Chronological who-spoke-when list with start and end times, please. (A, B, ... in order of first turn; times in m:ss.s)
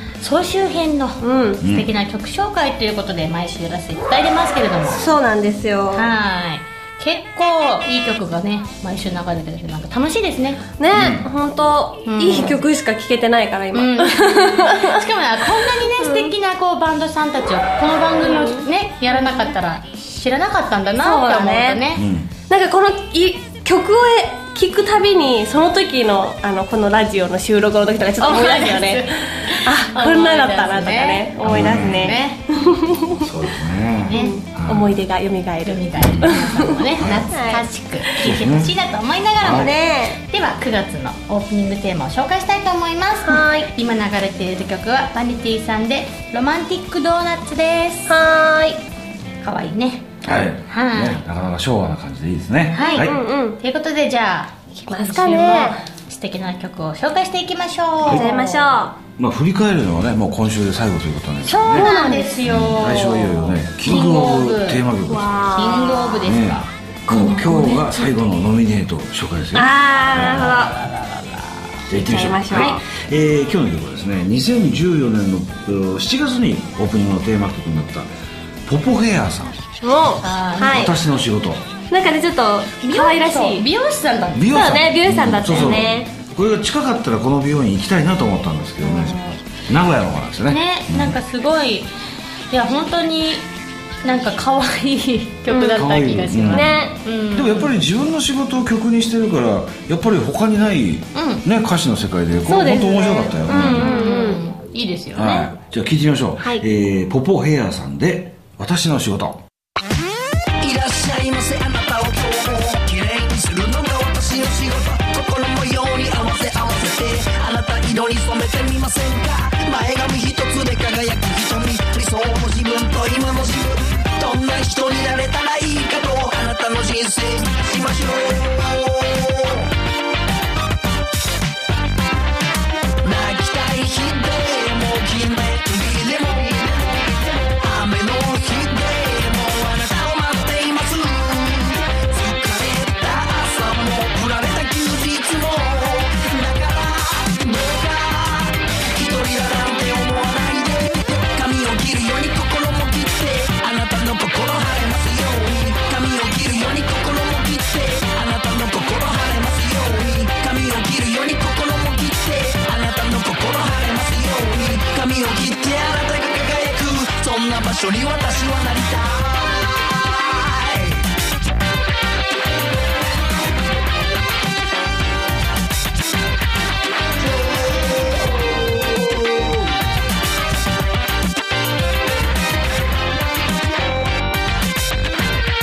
0:00.2-0:05.0 A
0:01.2-0:01.6 B
0:01.6-0:01.9 C
0:04.9-0:06.1 B
0:05.9-0:10.6 A
0:10.8-0:15.0 B
0:10.9-0:11.2 C
0:12.1-0:12.6 A
0:13.7-0:22.0 A
0:16.0-0:16.3 B
0:18.2-0:18.6 B
0:21.0-0:21.8 B
0:22.0-0:22.3 C
0:22.5-0:33.3 B
0:28.2-0:32.5 A
0:31.4-0:32.2 C
0:33.2-0:35.0 C
0:34.0-0:34.4 A
0:34.1-0:37.6 B
0:35.6-0:48.2 A
0:36.0-0:36.4 C
0:36.9-0:37.2 C
0:38.2-0:38.7 C
0:39.4-0:39.7 C
0:39.5-0:40.2 B
0:43.2-0:43.7 B
0:48.1-0:48.8 B
0:49.4-0:50.1 A
0:50.2-0:53.2 C
0:50.7-0:51.2 A
0:52.7-0:58.8 A
0:53.0-0:53.6 B
0:54.9-0:55.8 B
0:58.0-0:58.3 C
0:58.1-0:59.0 B
0:59.2-1:01.9 C
1:01.4-1:04.8 A
1:01.7-1:02.4 B
1:02.4-1:05.3 C
1:05.1-1:06.2 B
1:05.5-1:07.7 A
1:06.2-1:10.5 C
1:07.1-1:08.0 B
1:09.5-1:10.8 B
1:10.2-1:11.8 A
1:11.9-1:18.1 C
1:11.9-1:12.8 B
1:18.7-1:19.6 C
1:19.8-1:20.9 B
1:20.2-1:20.9 A
1:20.6-1:21.7 C
1:21.9-1:23.7 B
1:22.8-1:24.5 A
1:24.4-1:31.2 C
1:24.5-1:26.1 B
1:28.8-1:29.4 A
1:30.5-1:31.9 A
1:32.5-1:33.5 A
1:34.0-1:37.8 A
1:35.5-1:35.9 B
1:35.7-1:44.2 C
1:36.5-1:36.9 B
1:41.2-1:41.4 A
1:42.5-1:45.5 A
1:43.4-1:44.4 B
1:45.2-1:49.4 C
1:50.6-2:09.7 D
2:13.0-2:51.0 D
2:57.3-2:59.5 D